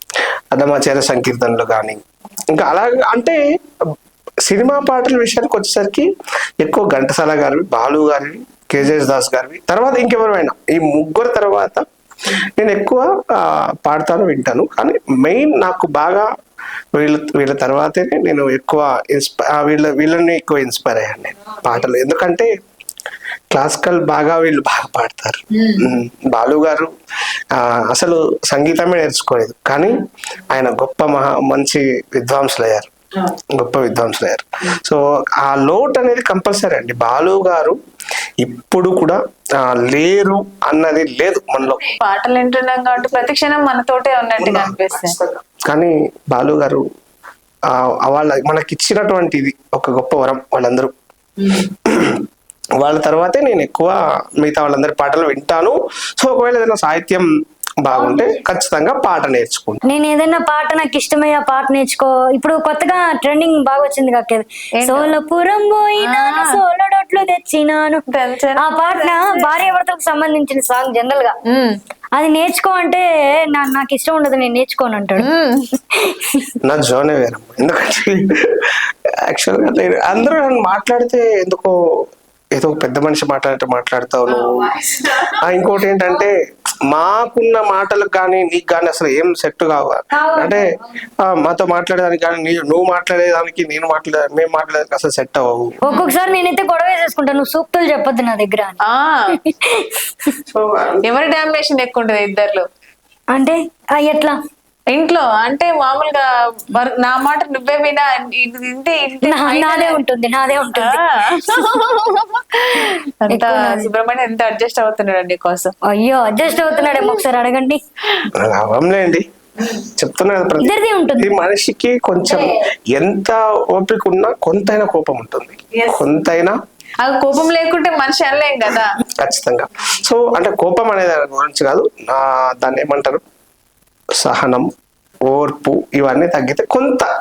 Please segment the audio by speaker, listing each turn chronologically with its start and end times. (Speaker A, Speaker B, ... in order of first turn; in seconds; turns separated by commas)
Speaker A: 0.5-2.0, Speaker A: 2.5-3.4, Speaker A: 4.4-6.1, Speaker A: 6.6-11.8, Speaker A: 12.4-16.2, Speaker A: 17.0-22.5, Speaker A: 23.5-26.9, Speaker B: 25.6-25.9, Speaker A: 27.5-32.9, Speaker A: 33.6-37.8, Speaker A: 38.4-41.8, Speaker B: 41.9-45.2, Speaker A: 44.4-46.8, Speaker A: 47.7-50.9, Speaker A: 51.8-52.2, Speaker A: 52.8-57.3, Speaker A: 57.8-59.8, Speaker C: 58.0-58.4, Speaker C: 59.9-68.0, Speaker B: 64.8-65.2, Speaker B: 66.0-66.5, Speaker B: 68.1-69.5, Speaker C: 68.6-71.4, Speaker B: 71.5-71.8, Speaker C: 72.2-75.3, Speaker B: 75.2-75.6, Speaker A: 76.6-78.8, Speaker A: 79.3-81.8, Speaker A: 82.5-84.5, Speaker B: 84.3-85.4, Speaker A: 85.4-86.3, Speaker A: 86.9-90.6, Speaker C: 90.2-90.5, Speaker B: 90.3-90.6, Speaker A: 91.2-95.8, Speaker C: 95.8-98.8, Speaker B: 98.9-99.3, Speaker C: 99.3-100.3, Speaker A: 100.5-101.0, Speaker B: 101.0-102.7, Speaker C: 103.3-104.4, Speaker B: 104.9-110.0, Speaker C: 109.2-111.0, Speaker B: 110.7-115.7, Speaker C: 112.8-113.9, Speaker C: 115.8-117.8, Speaker B: 116.7-117.2, Speaker A: 118.3-119.3, Speaker A: 119.8-126.6, Speaker C: 120.6-121.3, Speaker C: 122.2-122.5, Speaker B: 125.8-126.0, Speaker B: 127.0-129.0, Speaker A: 129.2-133.2, Speaker A: 134.2-134.7, Speaker A: 135.3-137.1